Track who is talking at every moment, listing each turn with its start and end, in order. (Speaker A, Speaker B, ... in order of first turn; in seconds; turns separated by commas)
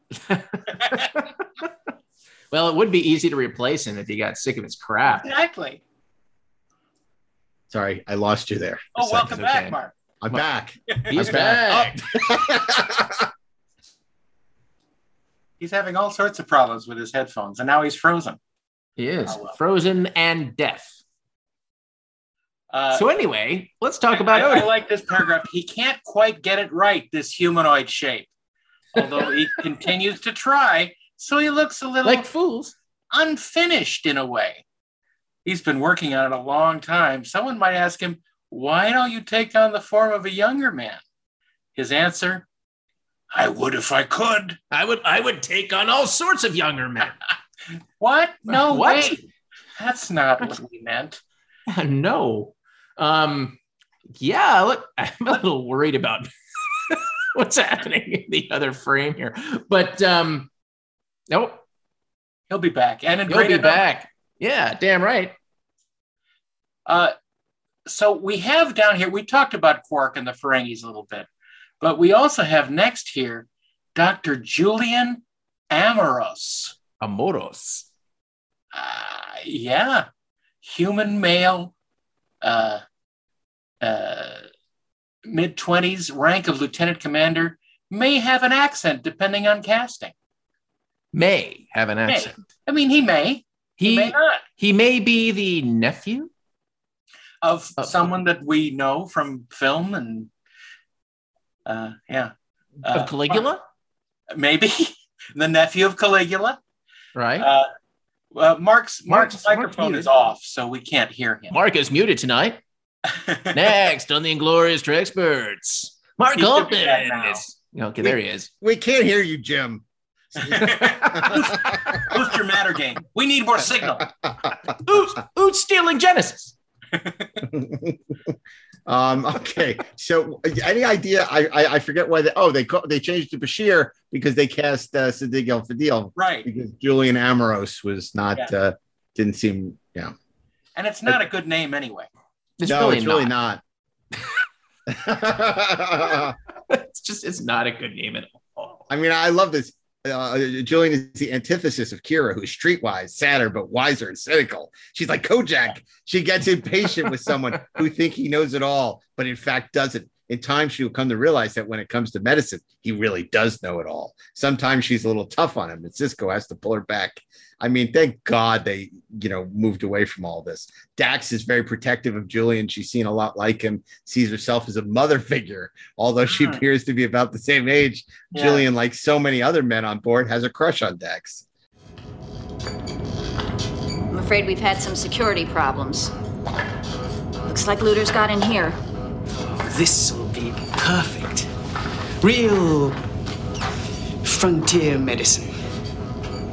Speaker A: 0.3-1.2, Speaker A: 2.5-5.3, Speaker B: 5.2-5.8, Speaker C: 7.7-9.5, Speaker B: 8.9-9.9, Speaker A: 9.3-9.8, Speaker C: 10.2-13.3, Speaker A: 11.1-12.0, Speaker B: 15.6-18.4, Speaker A: 19.0-21.0, Speaker B: 19.3-19.5, Speaker B: 22.7-23.1, Speaker A: 22.9-24.7, Speaker B: 24.1-28.3, Speaker B: 28.9-32.3, Speaker A: 32.0-32.7, Speaker B: 33.1-34.6, Speaker B: 35.5-41.0, Speaker B: 41.8-42.5, Speaker B: 43.3-44.6, Speaker A: 44.7-47.1, Speaker B: 48.0-49.2, Speaker A: 48.5-49.2, Speaker B: 49.8-51.2, Speaker A: 51.7-53.6, Speaker A: 54.2-56.3, Speaker A: 56.9-60.5, Speaker A: 61.3-61.6, Speaker B: 62.5-63.9, Speaker A: 63.3-65.3, Speaker B: 66.9-67.1, Speaker B: 67.9-71.3, Speaker B: 71.8-76.8, Speaker A: 77.0-77.9, Speaker B: 78.7-80.1, Speaker B: 80.6-81.7, Speaker B: 82.4-82.8, Speaker B: 83.8-84.5, Speaker B: 85.3-90.1, Speaker A: 91.1-92.4, Speaker B: 92.1-94.4, Speaker A: 93.8-96.3, Speaker B: 97.4-100.3, Speaker A: 97.8-98.2, Speaker B: 101.7-102.3, Speaker B: 102.8-103.5, Speaker A: 102.9-103.6, Speaker B: 104.3-106.6, Speaker A: 107.2-107.5, Speaker B: 107.4-107.7, Speaker B: 108.3-111.5, Speaker A: 109.1-110.1, Speaker A: 111.5-112.6, Speaker B: 113.1-113.5, Speaker A: 113.5-118.5, Speaker B: 116.4-117.5, Speaker C: 118.0-119.8, Speaker C: 120.4-122.2, Speaker B: 120.5-124.1, Speaker A: 120.5-121.3, Speaker A: 124.8-126.5, Speaker B: 127.0-127.3, Speaker C: 127.5-128.0, Speaker C: 128.9-140.1, Speaker B: 136.2-136.5, Speaker B: 140.8-142.1, Speaker A: 142.6-143.3, Speaker C: 142.7-143.6, Speaker C: 144.9-146.3, Speaker A: 146.7-148.8, Speaker C: 148.9-181.4, Speaker B: 176.3-176.6, Speaker B: 178.3-178.7, Speaker D: 184.1-186.1, Speaker D: 187.5-188.8, Speaker E: 189.6-191.5, Speaker E: 192.2-192.9, Speaker E: 194.2-195.4